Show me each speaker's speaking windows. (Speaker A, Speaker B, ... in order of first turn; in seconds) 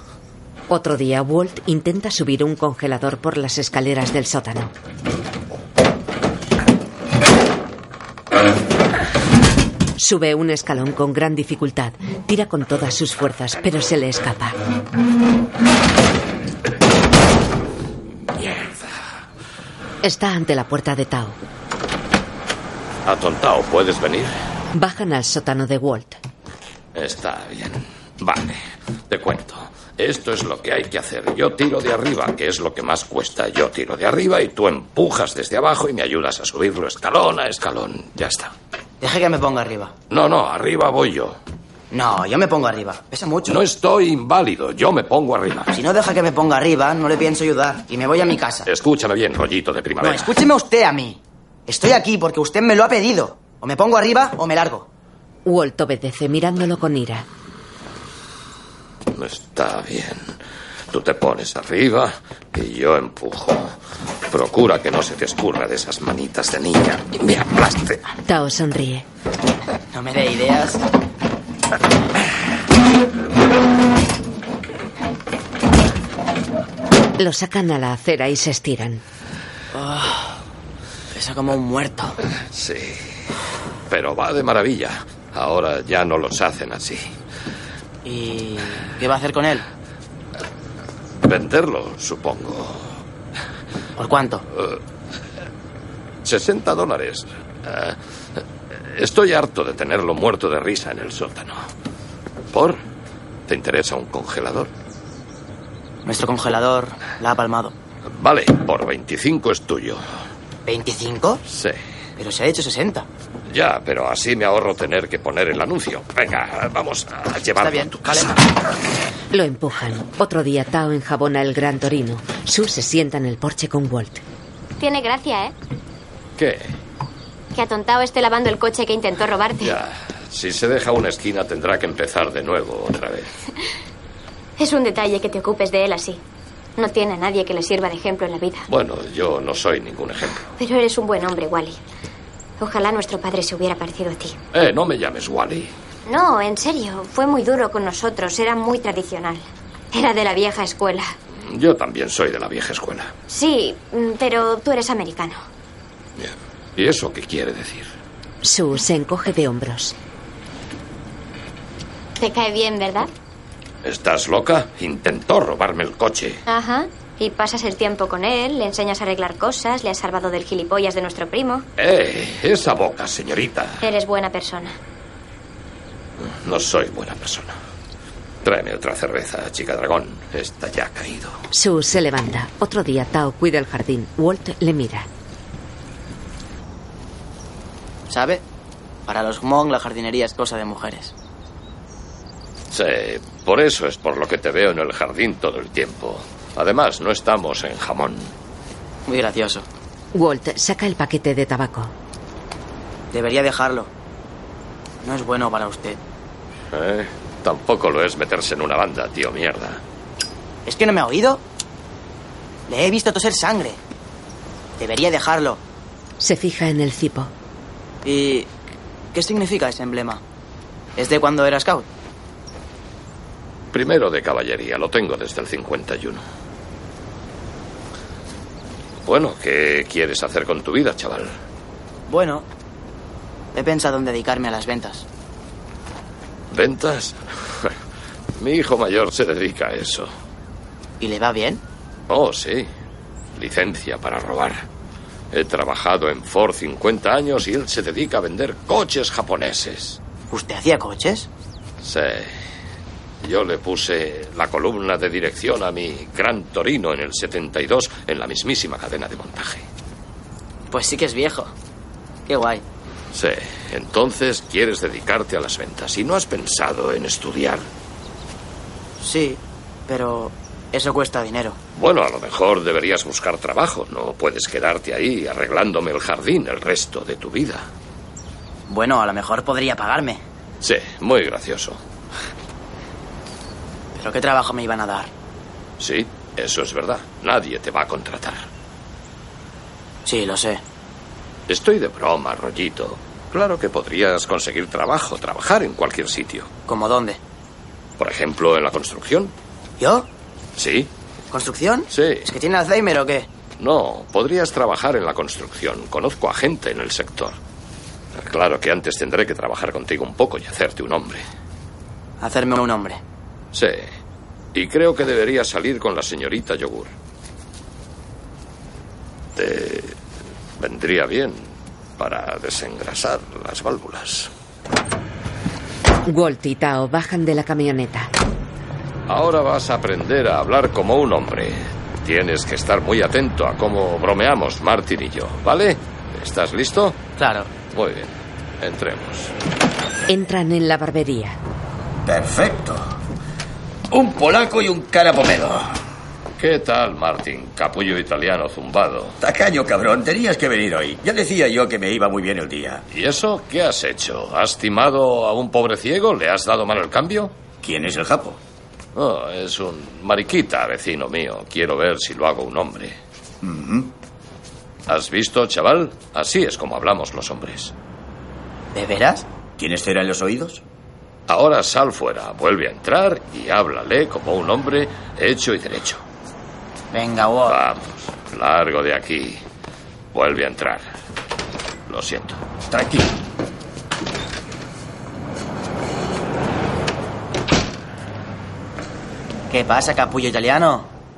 Speaker A: 0.7-4.7, 10.0-14.6, 20.0-21.4, 24.7-26.2, 55.4-57.2, 68.2-69.0, 77.2-79.0, 119.3-124.2, 158.4-159.9, 181.5-185.1, 200.1-201.9, 216.2-217.3, 326.1-328.1, 340.1-341.4
Speaker B: 18.4-18.9, 23.0-24.3, 26.9-38.5, 40.1-41.4, 43.5-45.8, 48.6-50.4, 59.1-60.4, 60.9-63.8, 64.3-68.0, 82.5-83.0, 83.9-87.1, 91.2-92.9, 96.2-98.0, 98.7-101.6, 102.5-102.8, 103.5-104.7, 108.1-110.0, 111.5-111.8, 113.5-118.5, 126.4-126.7, 129.6-133.3, 138.7-140.5, 144.5-145.7, 151.4-153.1, 156.2-157.9, 163.8-166.4, 171.8-173.8, 176.2-177.5, 178.4-181.4, 192.7-198.3, 206.7-209.8, 223.7-226.2, 229.0-231.3, 236.5-237.7, 238.4-240.1, 242.1-242.7, 243.3-244.7, 245.3-250.0, 251.8-252.3, 253.2-259.6, 263.1-267.7, 271.7-277.7, 280.6-281.8, 285.8-288.4, 291.5-296.5, 298.0-299.3, 300.6-300.9, 301.9-302.3, 303.6-307.4, 308.1-311.2, 313.5-313.9, 314.5-316.9, 319.4-319.9, 320.6-324.3, 329.1-337.0, 337.7-339.3, 346.4-349.1, 352.9-357.3, 358.9-363.0, 364.9-367.7, 371.3-376.0, 377.4-379.4, 380.1-380.9, 381.9-382.4
Speaker C: 39.0-39.9, 41.9-43.5, 45.7-48.7, 50.0-54.9, 69.9-70.8, 79.7-80.3, 81.1-82.2, 88.0-89.6, 94.0-94.4, 106.0-107.7, 110.7-111.4, 112.2-113.1, 117.6-118.3, 188.1-188.4, 189.1-191.1, 199.1-199.7, 203.1-203.9, 205.0-206.0, 210.7-211.4, 212.7-213.8, 214.8-215.6, 218.0-218.5, 219.1-220.2, 220.9-221.9, 232.1-232.4, 233.5-235.1, 241.0-241.6, 250.3-251.3, 260.7-261.5, 262.2-262.6, 269.0-271.6, 278.7-280.2, 283.9-285.1, 290.0-290.6, 296.7-297.2, 299.8-300.1, 301.3-303.3, 312.2-313.0, 337.2-337.5, 368.7-369.2, 376.9-377.6, 389.5-390.9
Speaker D: 124.8-125.5, 127.5-129.7, 134.6-136.2, 136.8-138.7, 140.6-141.8, 142.6-144.4, 146.1-151.1, 153.3-155.4, 162.2-163.1, 166.5-171.7, 173.8-174.8
Speaker E: 342.0-342.9, 343.9-345.7, 349.2-352.8, 357.6-358.4, 363.4-363.9, 369.6-370.6, 382.7-383.1